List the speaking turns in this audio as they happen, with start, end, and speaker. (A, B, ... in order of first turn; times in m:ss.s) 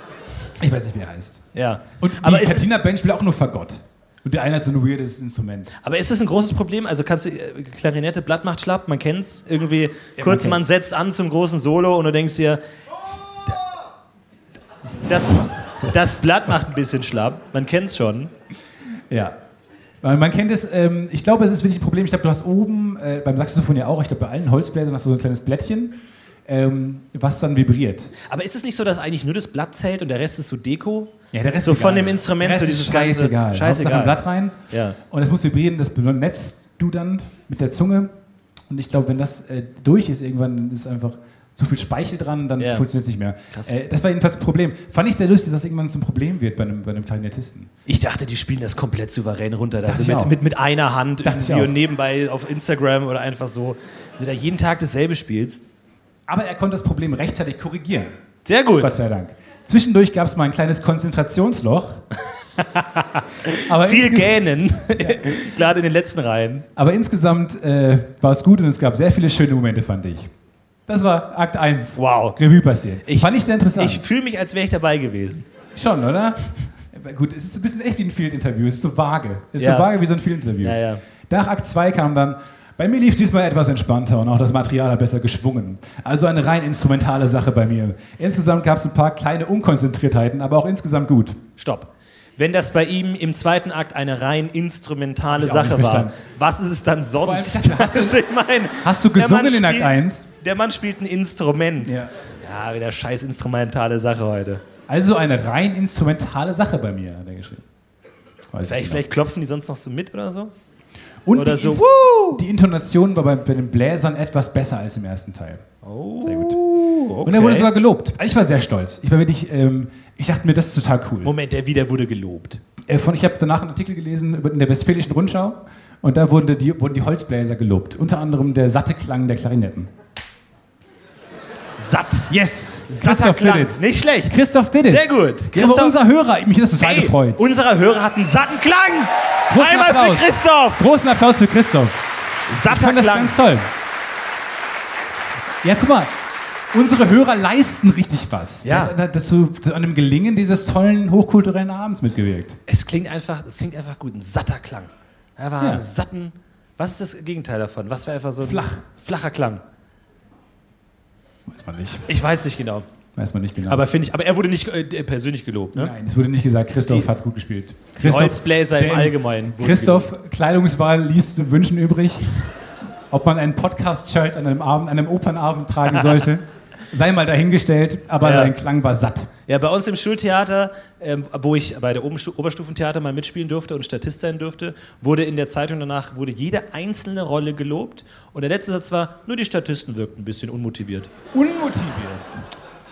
0:00.6-0:01.4 A
0:01.5-0:02.7 B
0:02.0-0:05.7 A
0:05.8-0:12.6 B
0:10.2-0:10.6 A
0:15.1-0:18.3 B
0:19.1-0:19.4 A
0:20.0-0:28.1 A
0:28.3-0:34.2 B
0:31.3-0:38.1 A
0:34.7-0:35.0 B
0:38.7-0:47.7 A
0:42.6-0:42.9 B
0:47.9-0:55.6 B
0:49.9-0:50.4 A
0:51.2-0:51.7 A
0:56.3-0:58.2 A
0:58.4-0:58.9 B
0:58.8-1:02.0 A
1:02.6-1:06.7 B
1:03.7-1:04.4 A
1:05.0-1:05.4 A
1:06.8-1:10.3 A
1:10.9-1:14.0 A
1:12.0-1:12.4 B
1:13.1-1:15.5 B
1:15.8-1:31.4 A
1:19.6-1:19.9 B
1:20.6-1:21.0 B
1:31.6-1:44.6 B
1:35.3-1:36.1 A
1:37.2-1:38.2 A
1:38.8-1:40.3 A
1:41.8-1:42.1 A
1:44.9-1:47.6 A
1:48.5-1:49.0 A
1:48.6-1:50.5 B
1:51.2-1:55.6 A
1:51.3-1:52.4 B
1:55.8-1:57.7 B
1:56.2-1:56.6 A
1:57.2-2:01.3 A
2:01.2-2:02.6 B
2:02.8-2:09.9 A
2:11.8-2:12.3 B
2:12.3-2:17.4 A
2:12.9-2:16.0 B
2:16.8-2:20.8 B
2:19.5-2:22.0 A
2:22.5-2:23.4 B
2:22.5-2:23.7 A
2:25.6-2:26.1 A
2:26.7-2:32.6 A
2:28.6-2:28.9 B
2:32.7-2:39.6 B
2:38.4-2:38.8 A
2:41.5-2:42.1 A
2:42.1-2:42.9 B
2:43.2-2:43.9 A
2:43.7-2:45.9 B
2:45.8-2:52.6 A
2:48.0-2:50.1 B
2:53.1-2:59.3 A
2:58.2-2:58.5 B
2:59.5-3:11.1 B
3:11.3-3:12.3 A